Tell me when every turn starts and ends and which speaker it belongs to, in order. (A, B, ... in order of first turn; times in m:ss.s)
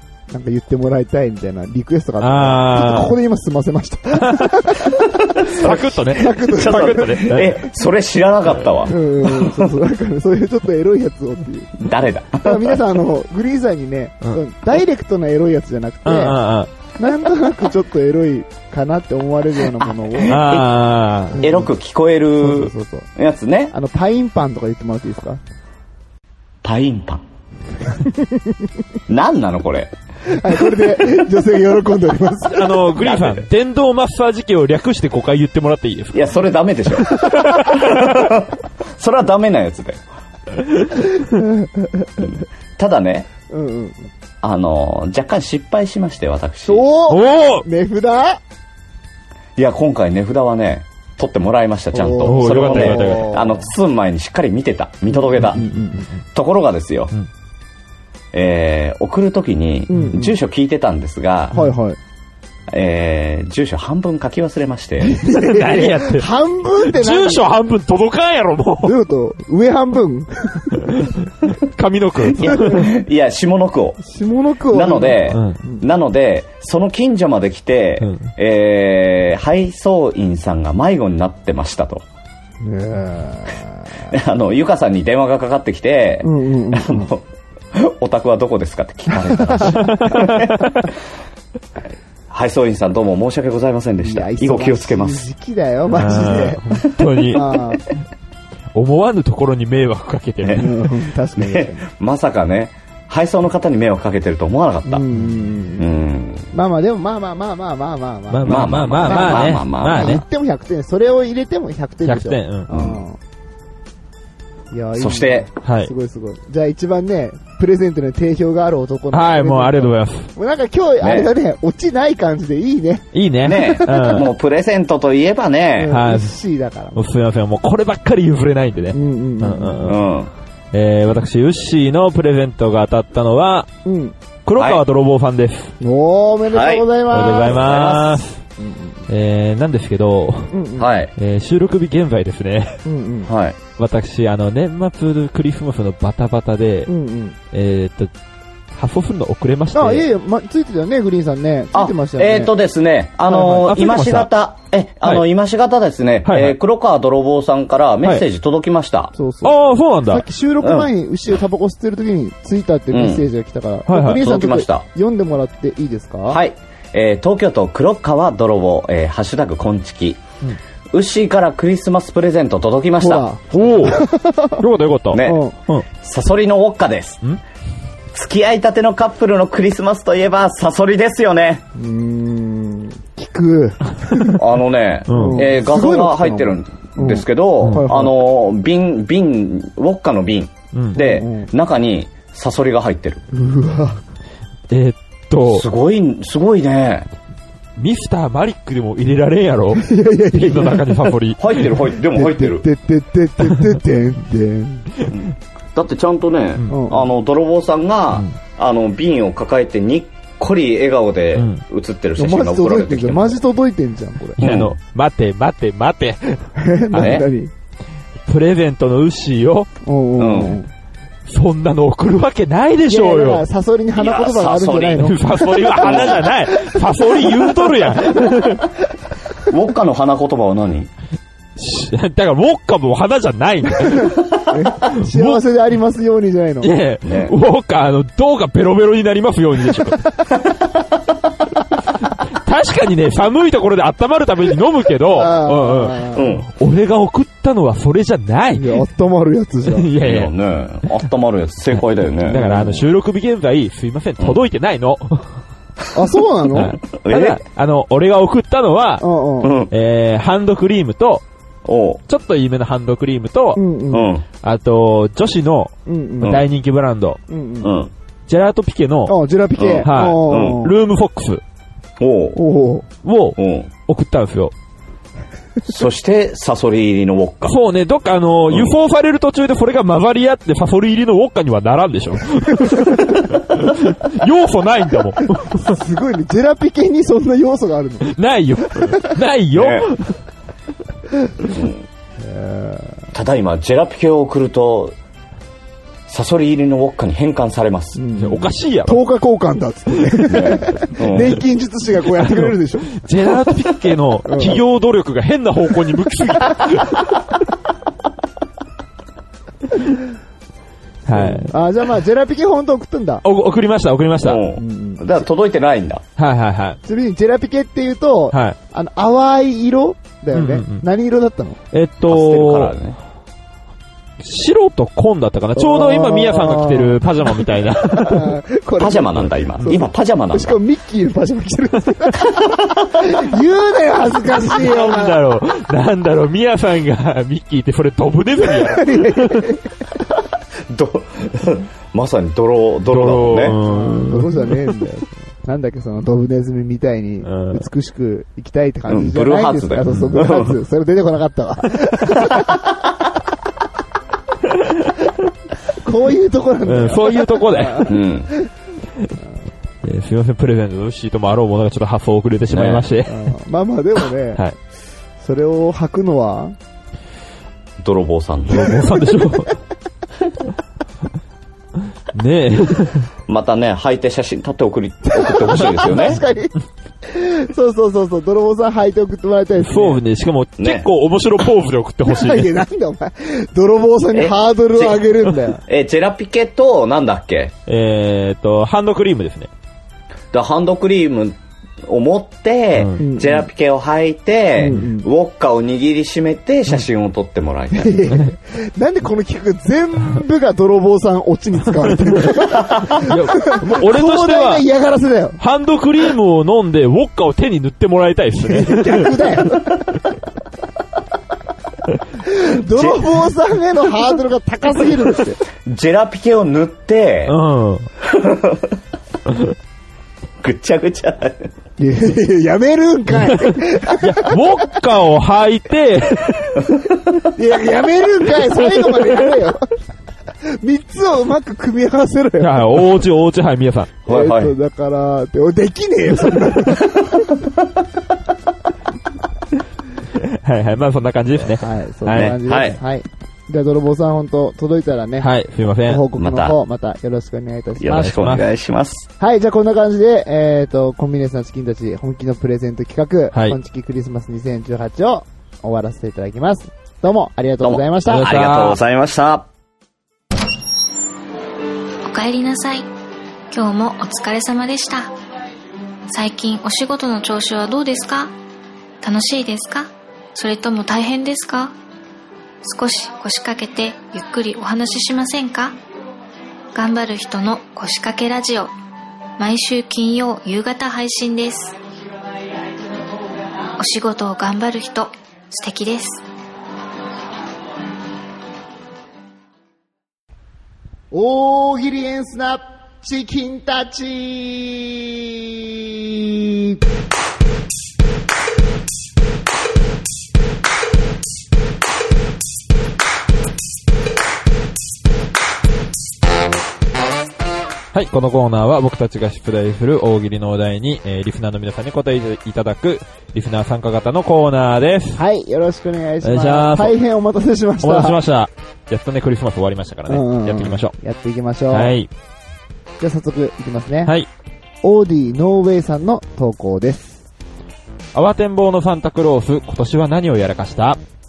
0:00.3-0:07.4 A
0:02.2-0:03.2 B
0:04.2-0:04.5 B
0:05.5-0:07.6 B
0:06.3-0:09.7 C
0:08.9-0:11.8 A
0:11.8-0:12.8 C
0:12.4-0:16.4 A
0:16.0-0:16.7 B
0:17.0-0:20.4 A
0:20.0-0:20.7 C
0:20.2-0:21.4 B
0:21.3-0:21.7 A
0:21.4-0:23.7 C
0:22.4-0:23.1 A
0:23.7-0:25.4 A
0:26.6-0:27.2 C
0:28.0-0:28.5 A
0:29.1-0:29.9 C
0:30.3-0:32.9 A
0:32.4-0:36.2 B
0:33.0-0:33.4 C
0:36.1-0:40.0 C
0:37.1-0:38.2 B
0:41.2-0:42.1 A
0:42.2-0:43.3 C
0:43.5-0:44.1 A
0:44.4-0:46.8 C
0:46.6-0:48.4 A
0:47.1-0:47.6 B
0:49.6-0:55.6 C
0:51.9-0:53.7 A
0:52.2-0:53.4 B
0:55.2-0:56.1 A
0:55.5-0:55.8 B
0:56.3-0:57.1 C
0:58.3-1:01.5 C
0:59.9-1:00.3 A
1:01.5-1:02.0 A
1:02.7-1:05.2 C
1:05.0-1:07.5 A
1:05.3-1:09.0 B
1:08.8-1:11.1 A
1:10.9-1:12.9 B
1:12.3-1:12.9 A
1:12.3-1:14.0 C
1:14.0-1:15.8 A
1:14.7-1:22.0 C
1:15.3-1:15.6 B
1:18.0-1:18.3 B
1:22.6-1:24.1 A
1:24.1-1:30.7 C
1:26.2-1:27.1 A
1:29.1-1:30.5 A
1:29.7-1:30.7 B
1:32.3-1:35.2 C
1:34.0-1:36.8 A
1:35.9-1:37.6 B
1:37.3-1:37.8 A
1:38.7-1:40.8 B
1:40.4-1:40.7 C
1:40.6-1:41.8 A
1:41.4-1:45.0 C
1:44.9-1:45.9 A
1:45.8-1:46.5 C
1:46.5-1:53.2 A
1:48.3-1:50.2 B
1:48.4-1:50.2 C
1:52.0-1:52.7 B
1:52.7-1:53.0 C
1:54.7-2:04.2 A
1:55.0-1:55.5 C
1:55.6-1:55.9 B
1:59.1-2:00.3 B
2:01.0-2:01.3 C
2:03.1-2:04.3 B
2:03.4-2:06.0 C
2:05.8-2:07.0 A
2:05.9-2:06.3 B
2:06.9-2:10.0 B
2:08.9-2:09.9 A
2:09.8-2:10.3 C
2:10.7-2:13.7 B
2:13.8-2:14.1 A
2:14.4-2:15.7 B
2:14.6-2:14.8 C
2:15.8-2:17.7 A
2:16.5-2:18.2 C
2:17.1-2:18.4 B
2:18.6-2:19.0 A
2:19.1-2:20.5 B
2:20.5-2:20.9 A
2:20.8-2:21.1 C
2:21.2-2:22.8 B
2:22.8-2:23.3 A
2:23.2-2:23.6 C
2:23.8-2:26.9 B
2:26.9-2:27.4 A
2:27.5-2:28.1 B
2:28.8-2:30.1 B
2:29.7-2:32.5 A
2:31.7-2:39.1 C
2:33.3-2:33.7 A
2:33.6-2:34.3 B
2:36.2-2:36.6 B
2:39.2-2:39.5 A
2:39.4-2:40.2 B
2:40.1-2:46.4 A
2:40.6-2:40.9 C
2:42.9-2:43.2 C
2:43.9-2:44.2 B
2:44.0-2:44.8 C
2:46.3-2:50.2 C
2:50.9-2:53.2 C
2:53.0-2:54.6 A
2:53.5-2:54.0 B
2:54.6-2:55.9 B
2:55.1-2:55.4 C
2:55.2-2:55.6 A
2:55.9-2:57.2 C
2:58.1-3:01.6 C
3:01.7-3:04.4 A
3:04.3-3:13.2 C
3:05.1-3:05.5 B
3:05.1-3:08.2 A
3:10.7-3:11.0 B
3:10.9-3:11.5 A
3:13.3-3:14.0 A
3:14.7-3:15.7 B
3:15.4-3:17.1 C
3:17.8-3:21.5 B
3:19.8-3:21.0 A
3:21.4-3:22.6 C
3:22.1-3:24.9 A
3:25.1-3:33.4 C
3:26.7-3:27.1 A
3:31.4-3:31.6 B
3:32.2-3:34.4 A
3:34.4-3:37.2 B
3:34.4-3:34.8 C
3:36.6-3:37.5 A
3:36.9-3:37.3 C
3:38.2-3:39.7 B
3:39.8-3:40.7 A
3:40.2-3:40.6 C
3:41.3-3:43.4 B
3:42.9-3:48.3 A
3:44.0-3:46.3 C
3:45.0-3:48.7 B
3:49.4-3:50.9 C
3:51.6-3:54.2 B
3:53.8-3:56.7 A
3:54.9-3:55.4 B
3:56.6-4:00.0 B
3:57.0-3:57.3 C
4:02.4-4:08.8 B
4:05.1-4:06.2 A
4:06.1-4:06.5 C
4:08.5-4:09.9 A
4:09.6-4:10.3 B
4:10.0-4:12.5 C
4:12.2-4:15.4 B
4:12.3-4:12.8 A
4:15.9-4:16.8 A
4:16.5-4:19.0 B
4:16.9-4:17.4 C
4:19.0-4:19.5 A
4:19.4-4:19.7 C
4:19.7-4:21.2 B
4:21.6-4:22.0 C
4:22.1-4:23.6 B
4:23.6-4:24.1 A
4:23.9-4:24.2 C
4:24.4-4:27.2 B
4:25.9-4:26.4 A
4:27.3-4:27.7 A
4:27.6-4:27.9 C
4:28.3-4:29.2 B
4:29.1-4:30.7 A
4:29.6-4:30.6 C
4:29.8-4:31.4 B
4:32.0-4:32.4 C
4:32.3-4:32.9 A
4:33.0-4:34.5 B
4:33.4-4:33.7 C
4:35.6-4:37.6 C
4:37.4-4:45.8 B
4:42.6-4:43.1 A
4:45.4-4:48.2 A
4:48.1-4:50.2 B
4:48.7-4:49.1 A
4:49.5-4:49.9 C
4:51.5-4:51.8 C
4:52.2-4:53.0 A
4:53.1-4:54.9 C
4:56.1-4:58.0 C
4:58.0-5:02.9 A
4:58.2-4:59.0 B
5:00.3-5:01.4 C
5:01.1-5:01.4 B
5:02.0-5:07.1 B
5:04.3-5:04.6 A
5:11.0-5:13.2 A
5:11.1-5:11.5 B
5:13.2-5:14.4 B
5:14.2-5:16.0 C
5:14.6-5:15.2 A
5:16.2-5:16.8 B
5:16.8-5:21.6 A
5:20.3-5:20.8 B
5:21.7-5:22.8 B
5:22.1-5:23.0 C
5:24.2-5:28.4 B
5:25.6-5:35.2 A
5:28.8-5:30.5 C
5:34.4-5:39.5 B
5:38.5-5:39.6 A
5:40.7-5:43.6 C
5:42.9-5:44.6 B
5:43.6-5:52.6 A
5:47.2-5:47.6 B
5:48.9-5:50.6 C
5:54.6-5:54.9 B
5:55.7-5:58.5 A
5:56.6-5:58.0 B
5:57.9-5:58.3 C
5:59.8-6:03.2 B
6:02.5-6:02.8 C
6:03.0-6:04.4 A
6:05.2-6:06.6 A
6:07.8-6:08.8 C
6:08.5-6:09.6 B
6:12.1-6:13.1 B
6:13.3-6:16.2 C
6:15.1-6:16.5 A
6:17.1-6:20.0 A
6:19.6-6:22.6 B
6:20.6-6:20.9 C
6:22.1-6:25.6 A
6:24.1-6:25.1 C
6:25.6-6:27.5 C
6:27.7-6:29.5 B
6:30.3-6:38.0 C
6:33.0-6:33.4 A
6:34.6-6:35.1 A
6:37.7-6:45.4 A
6:43.1-6:44.6 B
6:45.4-6:49.4 B
6:48.4-6:49.8 A
6:52.2-6:55.4 A
6:52.7-6:53.1 C
6:55.6-6:57.4 C
6:57.3-6:57.9 B
6:58.0-6:58.8 C
7:00.4-7:01.5 C
7:01.8-7:04.3 A
7:03.2-7:06.6 B
7:07.3-7:09.7 A
7:08.8-7:09.1 B
7:10.4-7:12.8 A
7:12.4-7:13.9 B
7:14.0-7:14.5 C
7:14.1-7:17.2 A
7:20.2-7:22.4 B
7:21.6-7:25.3 A
7:22.1-7:22.8 C
7:25.2-7:26.0 B
7:25.8-7:28.2 A
7:26.2-7:26.6 C
7:27.8-7:29.1 C
7:27.9-7:28.4 B
7:29.2-7:38.3 A
7:37.6-7:39.5 C
7:38.1-7:38.8 B
7:42.0-7:42.9 D
7:43.5-7:45.2 D
7:46.1-7:48.3 D
7:49.0-7:51.7 D
7:52.6-7:55.8 D
7:56.7-7:58.7 D
7:59.4-8:01.8 D
8:03.8-8:06.2 D
8:11.1-8:16.8 A
8:27.9-8:35.2 B
8:35.2-8:38.2 A
8:36.2-8:37.0 B
8:37.8-8:40.9 B
8:40.1-8:41.9 A
8:41.7-8:42.1 B
8:43.0-8:44.1 A
8:44.8-8:47.2 A
8:48.1-8:51.0 B